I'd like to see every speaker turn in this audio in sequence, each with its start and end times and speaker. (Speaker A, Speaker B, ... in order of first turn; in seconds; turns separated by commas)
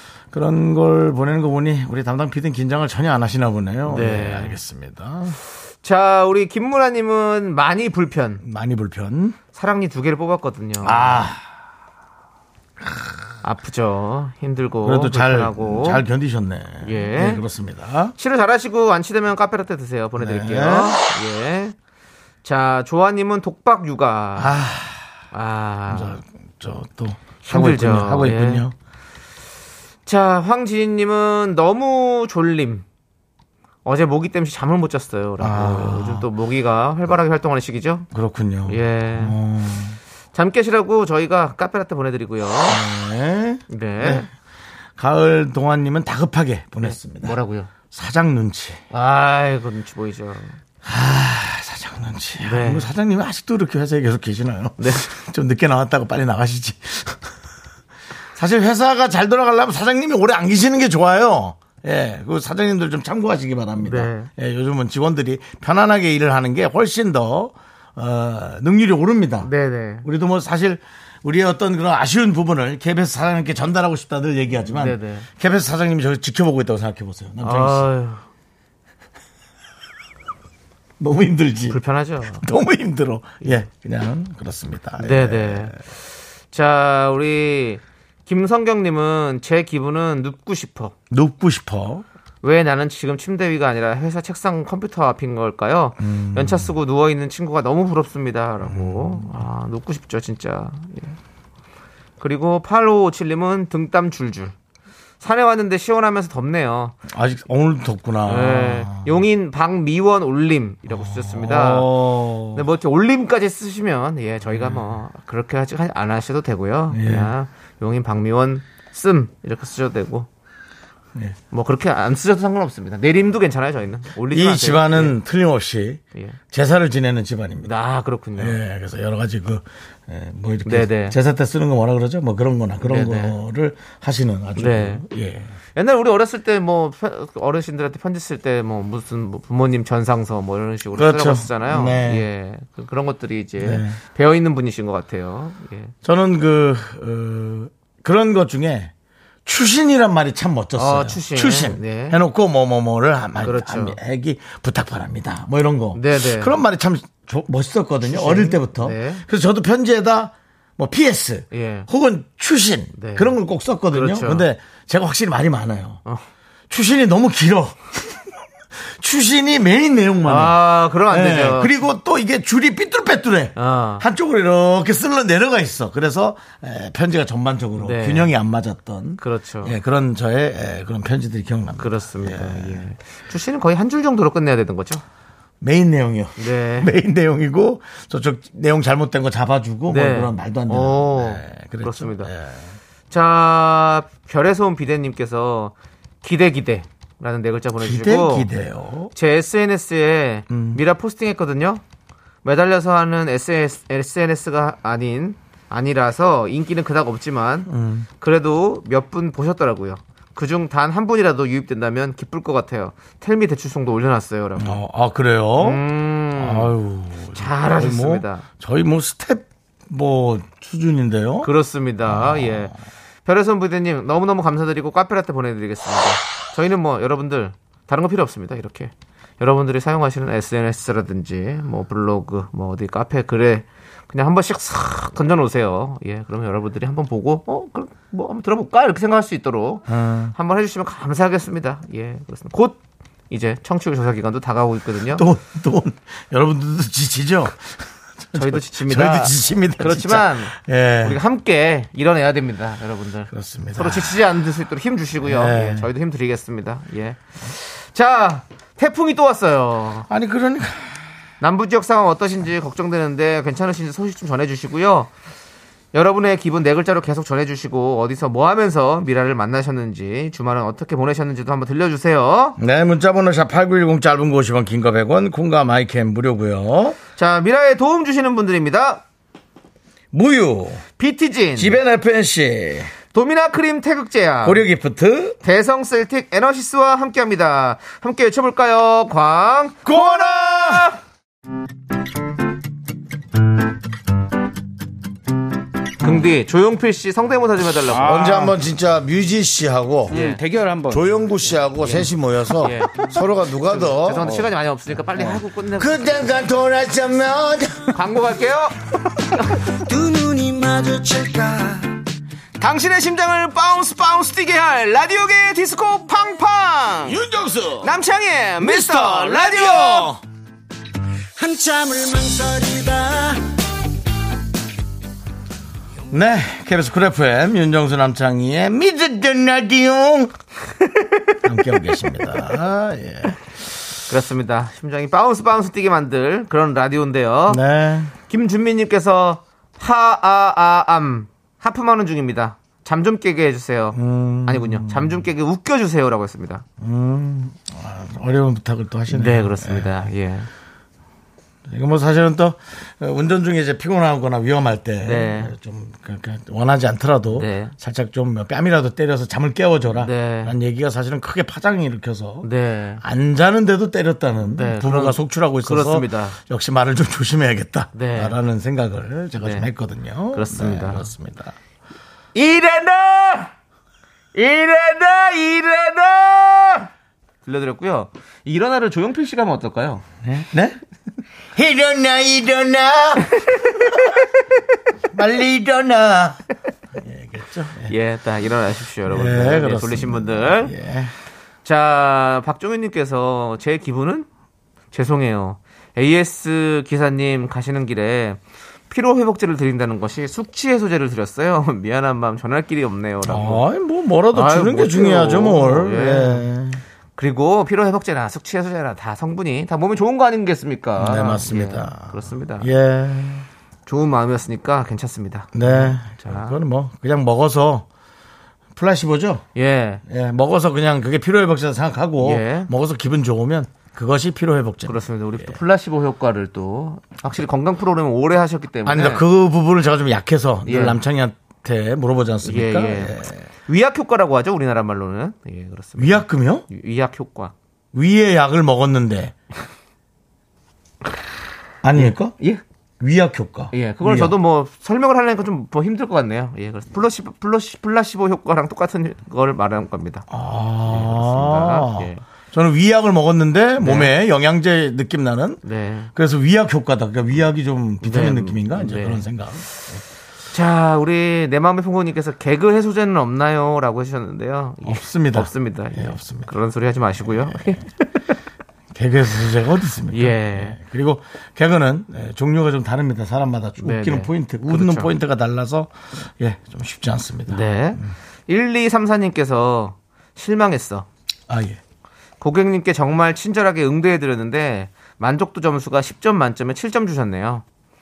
Speaker A: 0.3-5.4, Speaker B: 3.9-4.6, Speaker B: 5.8-8.4, Speaker A: 8.4-9.4, Speaker B: 9.5-11.2, Speaker A: 10.8-11.4, Speaker A: 12.8-13.1, Speaker B: 13.4-16.0, Speaker A: 14.8-18.1, Speaker B: 16.8-17.4, Speaker B: 18.2-21.7, Speaker A: 20.2-21.1, Speaker B: 22.4-24.5, Speaker A: 24.4-25.0, Speaker B: 25.3-26.2, Speaker A: 25.9-28.7, Speaker B: 27.4-28.6, Speaker B: 30.1-32.8, Speaker B: 33.8-38.1, Speaker A: 35.4-36.3, Speaker A: 38.1-40.0, Speaker B: 38.7-39.3, Speaker B: 40.3-42.8, Speaker A: 42.7-44.3, Speaker B: 43.7-44.3, Speaker A: 45.0-47.3, Speaker B: 46.8-47.7, Speaker A: 47.9-48.8, Speaker B: 48.9-50.6, Speaker A: 50.8-57.2, Speaker B: 52.4-52.9, Speaker B: 54.8-55.0, Speaker A: 58.4-69.5, Speaker B: 63.8-64.3, Speaker B: 69.4-70.1, Speaker A: 70.0-77.9, Speaker B: 74.7-75.3, Speaker B: 77.4-78.2, Speaker A: 81.0-81.8, Speaker B: 81.7-82.4, Speaker A: 82.4-85.8, Speaker B: 85.0-86.0, Speaker B: 86.5-90.9, Speaker A: 91.1-92.0, Speaker B: 92.4-101.2, Speaker A: 96.0-96.7, Speaker A: 98.6-99.4, Speaker B: 102.2-104.5, Speaker B: 105.2-107.0, Speaker A: 107.1-109.2, Speaker B: 108.2-111.9, Speaker A: 110.9-112.6, Speaker B: 112.5-120.3, Speaker A: 114.5-114.9, Speaker A: 116.9-117.3, Speaker B: 121.5-125.2, Speaker A: 124.3-127.7, Speaker B: 127.6-128.6, Speaker A: 128.3-135.5, Speaker B: 130.6-131.2, Speaker B: 132.8-133.3, Speaker B: 134.6-135.0, Speaker B: 135.7-145.9, Speaker A: 140.9-142.2, Speaker A: 143.6-144.0, Speaker A: 146.0-148.9, Speaker A: 149.4-166.0, Speaker B: 150.8-152.2, Speaker B: 153.4-154.0, Speaker B: 155.9-156.6, Speaker B: 158.0-159.2, Speaker B: 161.5-161.9, Speaker B: 162.9-163.3, Speaker B: 163.9-164.4, Speaker A: 166.7-167.8, Speaker A: 168.8-182.8, Speaker B: 170.2-171.9, Speaker B: 173.6-174.0, Speaker B: 177.8-178.3, Speaker B: 179.2-179.8, Speaker B: 181.8-185.0, Speaker A: 185.6-192.6, Speaker B: 186.4-186.9, Speaker B: 189.9-192.3, Speaker B: 193.1-198.5, Speaker A: 197.8-199.1, Speaker B: 199.1-201.8, Speaker A: 200.5-200.8, Speaker B: 202.4-214.8, Speaker A: 207.7-208.1, Speaker A: 214.6-221.5, Speaker B: 215.6-216.7, Speaker B: 217.3-218.4, Speaker B: 221.4-222.7, Speaker A: 222.1-222.7, Speaker B: 223.2-242.8, Speaker A: 239.9-240.3, Speaker B: 243.3-245.2, Speaker A: 245.1-251.2, Speaker B: 248.3-260.1, Speaker A: 253.3-254.2, Speaker A: 255.2-255.9, Speaker A: 260.1-261.0, Speaker B: 261.4-265.1, Speaker B: 265.9-272.6, Speaker A: 272.6-277.0, Speaker B: 277.2-279.0, Speaker A: 280.1-280.8, Speaker B: 281.0-281.8, Speaker A: 281.6-282.9, Speaker B: 283.1-284.6, Speaker A: 284.4-285.4, Speaker B: 285.4-291.0, Speaker A: 289.8-290.9, Speaker B: 296.0-298.5, Speaker A: 297.9-304.5, Speaker B: 300.1-300.4, Speaker B: 301.8-306.5, Speaker A: 305.1-308.0, Speaker B: 307.9-308.8, Speaker B: 309.4-309.6, Speaker C: 310.1-311.7, Speaker B: 312.6-317.2, Speaker A: 317.1-317.9, Speaker B: 317.8-320.1, Speaker A: 318.6-320.2, Speaker C: 321.6-323.1, Speaker A: 326.1-330.3, Speaker A: 331.4-333.4, Speaker B: 334.1-337.6, Speaker A: 337.5-338.1, Speaker B: 338.3-346.6, Speaker A: 343.9-345.2, Speaker A: 346.8-350.1, Speaker B: 349.1-350.5, Speaker A: 351.7-362.5, Speaker B: 355.0-355.5, Speaker B: 357.3-357.7, Speaker B: 359.9-360.5, Speaker B: 362.4-363.0, Speaker A: 363.0-371.6, Speaker B: 364.5-366.4, Speaker B: 367.9-368.4, Speaker B: 369.4-369.7, Speaker B: 370.3-371.1, Speaker B: 372.3-373.5, Speaker B: 374.3-376.9, Speaker B: 377.4-380.0, Speaker A: 380.2-380.8, Speaker A: 381.5-383.9, Speaker B: 383.4-384.2, Speaker A: 385.1-386.4, Speaker A: 386.9-387.9, Speaker B: 387.9-390.7, Speaker A: 389.1-391.1, Speaker B: 391.6-394.3, Speaker B: 394.9-403.6, Speaker A: 403.2-406.8, Speaker B: 404.3-406.5, Speaker B: 407.2-412.7, Speaker A: 411.0-413.4, Speaker B: 413.9-416.6, Speaker A: 415.5-417.9, Speaker A: 418.8-419.4, Speaker B: 419.6-420.0, Speaker A: 420.1-425.6, Speaker B: 422.2-422.7, Speaker B: 424.8-429.2, Speaker A: 428.9-433.4, Speaker B: 430.6-431.0, Speaker B: 432.4-437.5, Speaker A: 436.0-436.6, Speaker A: 437.9-439.3, Speaker A: 441.8-442.4, Speaker B: 441.9-442.6, Speaker A: 443.0-444.3, Speaker B: 443.7-450.3, Speaker A: 450.3-455.6, Speaker B: 450.9-452.2, Speaker B: 453.8-454.1, Speaker B: 455.6-456.1, Speaker A: 456.1-460.0, Speaker B: 458.0-459.2, Speaker B: 460.5-468.4, Speaker A: 464.8-466.5, Speaker A: 467.2-467.8, Speaker A: 468.9-478.1, Speaker B: 470.1-470.8, Speaker B: 473.8-475.1, Speaker B: 477.5-481.1, Speaker A: 481.5-481.8, Speaker B: 482.4-487.6